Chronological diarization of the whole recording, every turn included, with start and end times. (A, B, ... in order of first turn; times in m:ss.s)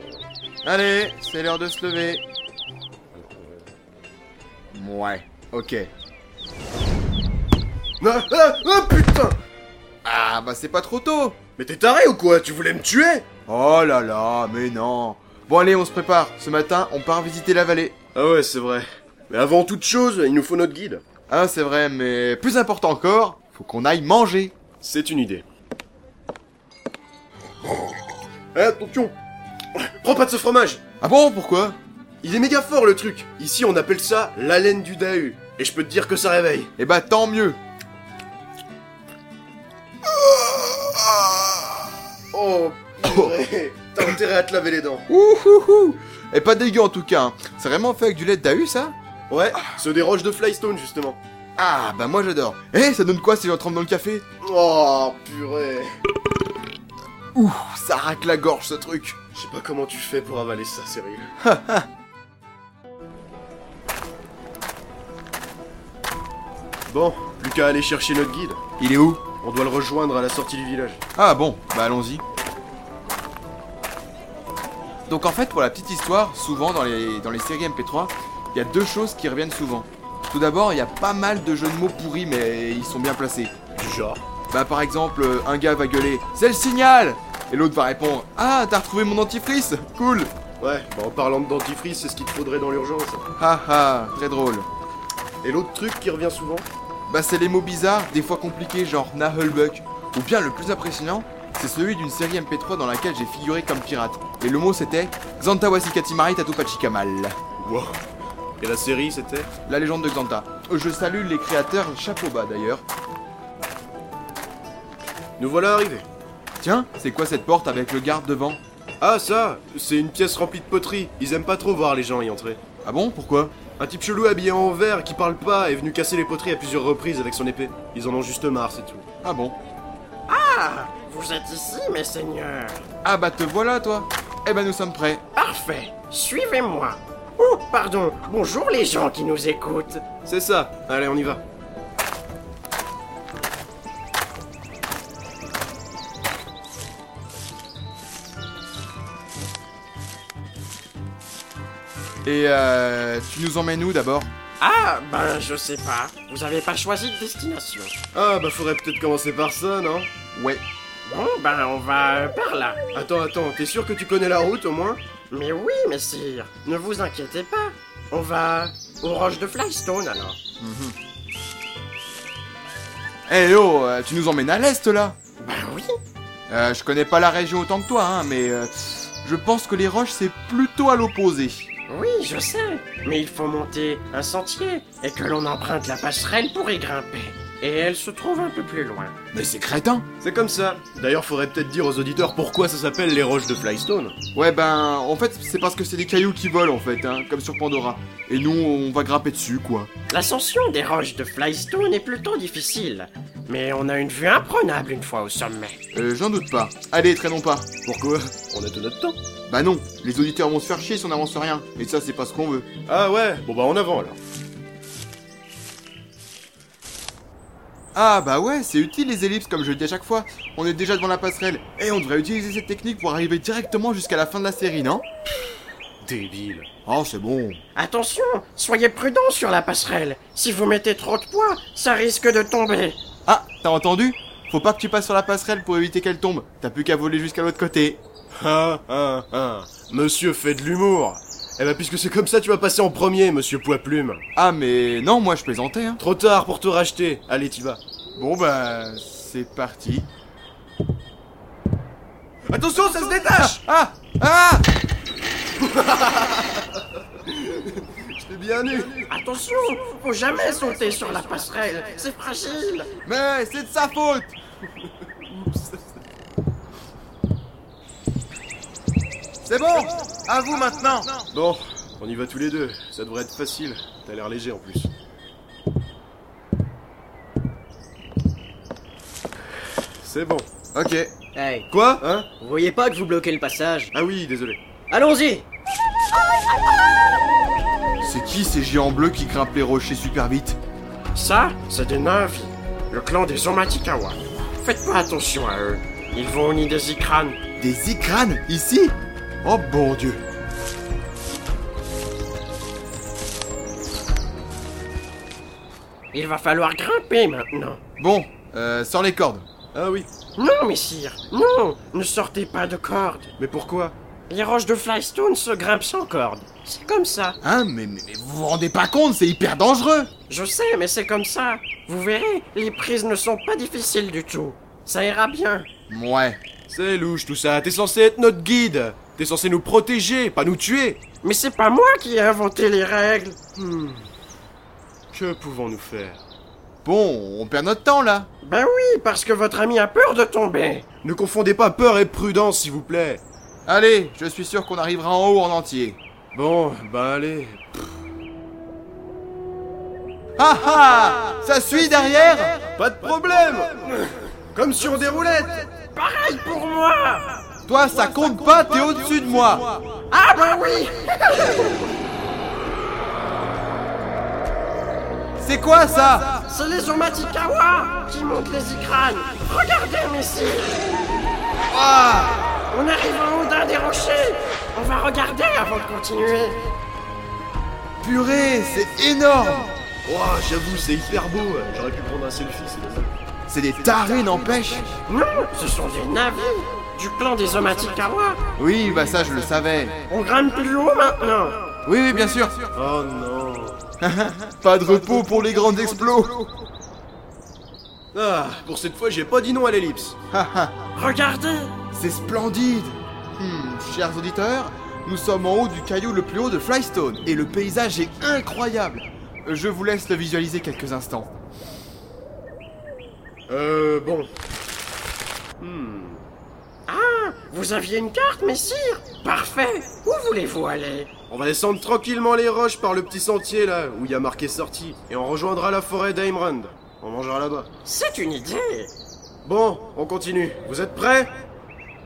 0:00.6-0:02.2 A
0:04.7-0:05.9 A
0:08.0-0:09.4 B
0:10.0-0:11.4 A
0:11.6-0:13.2 B
0:13.5-0:18.0 A
0:18.1-0:21.0 B
0:21.3-0:24.6 A
0:24.8-0:25.4 B
0:28.6-0:29.1 B
0:29.8-0:30.8 B
0:31.0-0:31.8 A
0:32.2-0:36.7 B
0:36.8-0:37.6 A
0:42.3-0:45.0 B
0:45.1-0:49.0 A
0:49.3-0:51.2 B
0:51.6-0:54.2 A
0:54.4-0:55.9 B
0:57.4-0:59.2 A
0:59.4-1:01.3 B
1:01.4-1:01.9 A
1:06.9-1:08.6 B
1:08.8-1:09.2 A
1:09.4-1:11.0 B
1:11.2-1:12.2 A
1:15.1-1:23.5 A
1:23.8-1:24.2 B
1:24.5-1:30.3 A
1:30.6-1:33.2 B
1:33.4-1:34.7 A
1:35.4-1:36.7 B
1:37.1-1:47.4 A
1:47.6-1:48.0 B
1:48.6-1:49.5 B
1:49.7-1:52.8 A
1:55.4-1:56.0 B
1:56.6-1:58.6 A
1:59.0-2:02.6 B
2:02.8-2:03.5 A
2:03.8-2:09.0 B
2:09.2-2:09.6 A
2:10.3-2:12.8 C
2:13.0-2:15.2 A
2:15.3-2:20.0 C
2:20.2-2:21.4 B
2:32.2-2:34.3 A
2:34.6-2:37.9 C
2:38.1-2:40.1 B
2:40.3-2:40.6 A
2:41.0-2:42.8 C
2:42.9-2:45.0 B
2:45.3-2:50.4 C
2:50.6-2:50.9 A
2:53.3-2:55.2 A
2:55.4-2:56.0 C
2:56.5-3:01.7 A
3:01.9-3:09.1 C
3:09.3-3:10.1 A
3:10.2-3:14.1 B
3:14.3-3:19.9 A
3:20.1-3:25.8 C
3:25.9-3:27.7 A
3:27.8-3:29.2 B
3:29.5-3:32.7 A
3:32.9-3:34.2 B
3:37.9-3:45.0 A
3:46.0-3:46.7 B
3:46.8-3:47.6 A
3:47.8-3:53.0 C
3:53.2-3:58.0 A
3:58.3-4:04.2 B
4:04.4-4:06.0 A
4:06.0-4:07.8 B
4:08.2-4:10.1 A
4:12.5-4:13.6 B
4:12.7-4:14.7 A
4:15.6-4:19.1 B
4:19.1-4:22.9 C
4:23.0-4:24.4 A
4:25.2-4:25.9 B
4:29.4-4:31.2 A
4:31.3-4:34.9 B
4:40.0-4:40.5 B
4:40.7-4:41.1 A
4:41.4-4:41.7 D
4:41.7-4:42.3 B
4:42.4-4:43.9 D
4:43.9-4:44.6 B
4:44.9-4:45.5 D
4:48.0-4:50.6 A
4:51.1-4:57.4 C
4:57.6-5:00.2 A
5:06.1-5:07.8 C
5:08.0-5:09.5 A
5:09.7-5:10.1 B
5:10.4-5:13.3 C
5:13.4-5:13.9 B
5:14.3-5:17.4 C
5:17.4-5:20.1 A
5:20.3-5:25.7 C
5:25.9-5:26.4 A
5:26.7-5:31.0 B
5:31.2-5:33.4 C
5:33.6-5:34.1 B
5:35.1-5:36.2 B
5:36.8-5:38.3 A
5:38.4-5:40.9 C
5:41.0-5:43.2 B
5:43.7-5:46.0 A
5:46.3-5:47.9 B
5:50.4-5:52.6 A
5:52.8-5:55.7 B
5:55.9-5:57.4 C
5:57.7-5:59.8 A
6:00.1-6:01.8 C
6:05.4-6:06.4 A
6:06.5-6:11.0 C
6:11.7-6:12.4 A
6:12.7-6:16.7 C
6:18.0-6:19.7 A
6:20.1-6:23.1 B
6:23.5-6:25.0 A
6:25.1-6:28.4 C
6:28.6-6:30.1 A
6:30.1-6:31.7 C
6:31.9-6:32.7 A
6:32.8-6:33.8 B
6:34.0-6:36.5 A
6:38.1-6:40.2 B
6:40.3-6:40.7 A
6:41.0-6:41.7 C
6:41.9-6:51.3 A
6:53.5-6:54.3 B
6:55.6-6:56.2 B
6:56.9-7:01.1 C
7:01.3-7:07.7 B
7:07.8-7:08.9 C
7:09.4-7:11.3 B